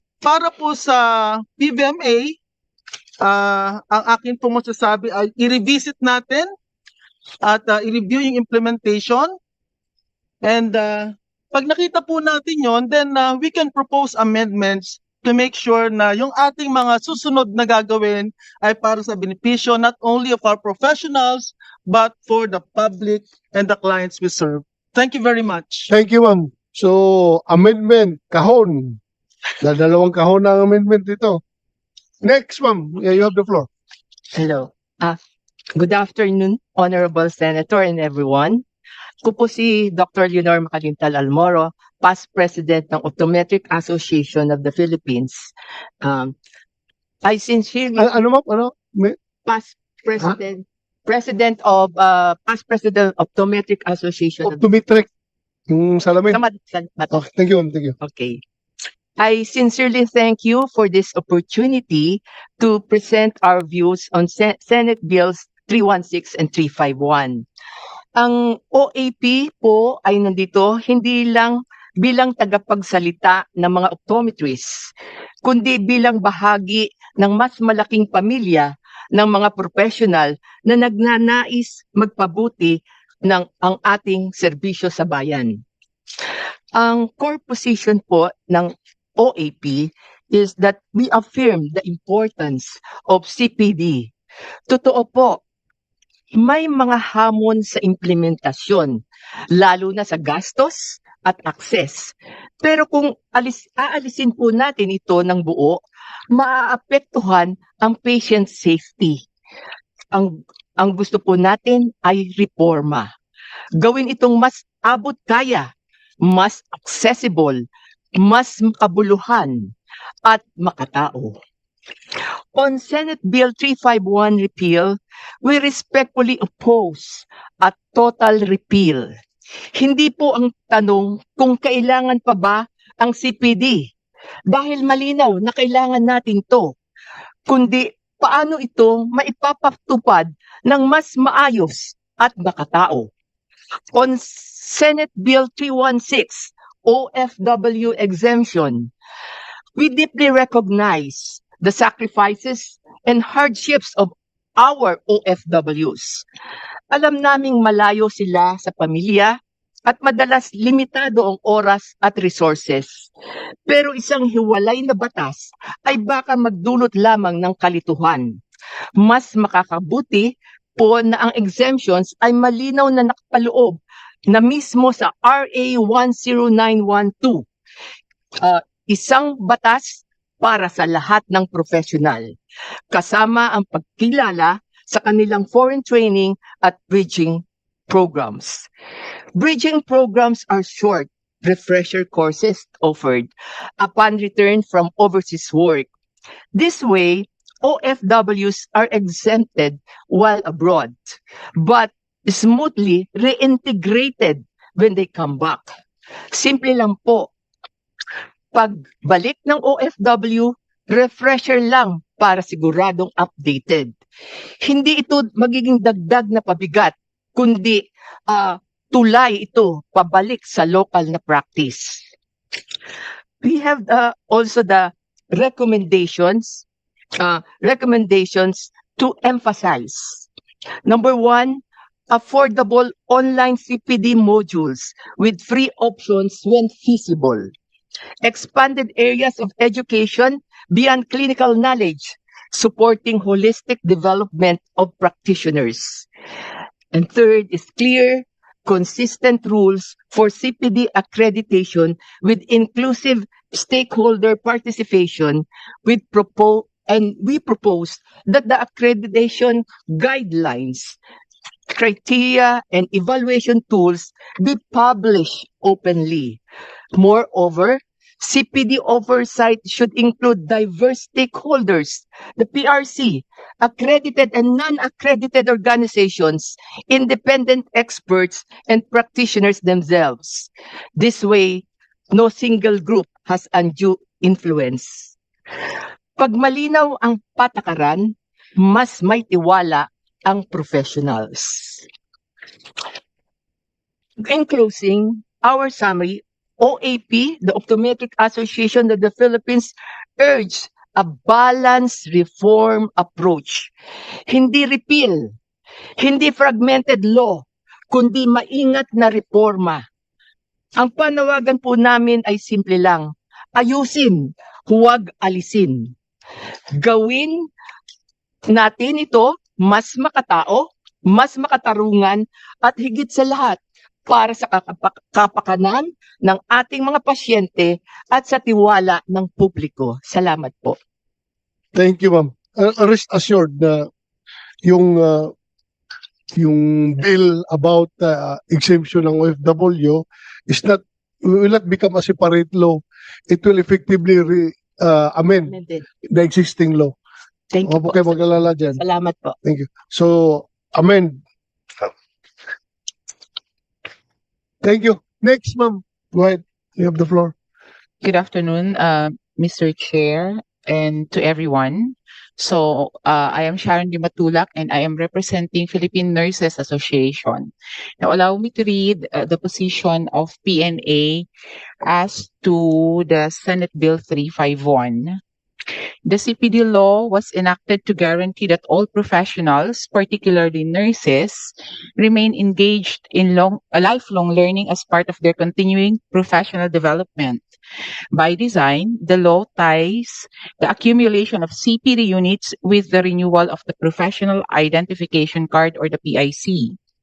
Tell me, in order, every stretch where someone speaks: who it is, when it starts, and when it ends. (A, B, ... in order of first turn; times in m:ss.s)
0:00.2-0:02.4 A
0:03.2-0:06.5 A
0:07.4-0:09.3 A
0:10.4-0:25.9 A
0:25.9-0:29.0 B
0:29.6-0:31.4 B
0:32.2-0:33.7 B
0:34.3-0:35.2 C
0:35.7-0:38.6 C
0:39.2-0:46.3 C
0:47.2-0:48.1 C
0:48.0-0:49.2 B
0:49.4-0:54.6 C
0:54.4-0:55.1 B
0:55.7-0:56.4 B
0:56.3-0:57.1 C
0:57.1-0:57.9 B
0:58.0-0:58.4 C
0:59.2-1:07.4 C
1:08.1-1:14.9 C
1:15.4-1:25.6 C
1:26.8-1:34.1 C
1:34.7-1:35.4 C
1:36.3-1:49.2 C
1:50.1-1:53.1 C
1:53.8-1:55.7 C
1:56.2-1:57.6 C
1:58.2-1:59.7 C
2:00.2-2:01.4 C
2:02.5-2:09.1 C
2:09.7-2:13.9 C
2:14.5-2:16.8 C
2:17.5-2:23.1 C
2:23.9-2:28.9 C
2:29.8-2:36.2 C
2:36.9-2:43.1 C
2:43.7-2:48.4 C
2:49.0-2:57.4 C
2:58.4-3:02.3 C
3:02.9-3:08.7 C
3:09.3-3:15.9 C
3:16.5-3:25.7 C
3:26.3-3:27.3 C
3:28.5-3:33.9 C
3:34.6-3:42.1 C
3:43.4-3:46.6 C
3:47.2-3:50.2 C
3:50.8-3:57.5 C
3:58.2-4:06.1 C
4:06.9-4:21.0 C
4:21.7-4:26.4 C
4:26.9-4:45.2 C
4:46.2-4:51.9 C
4:54.2-5:03.7 C
5:04.3-5:05.3 C
5:06.0-5:09.8 C
5:10.8-5:15.9 C
5:16.7-5:17.5 C
5:18.5-5:30.8 C
5:31.7-5:33.9 B
5:34.6-5:35.3 B
5:36.4-5:45.5 B
5:45.4-5:45.8 C
5:46.1-5:46.9 B
5:47.5-5:49.3 C
5:47.6-5:48.8 B
5:49.4-5:51.2 B
5:54.6-5:57.3 B
5:58.0-6:11.3 D
6:11.8-6:15.2 D
6:16.0-6:27.4 D
6:28.1-6:36.8 D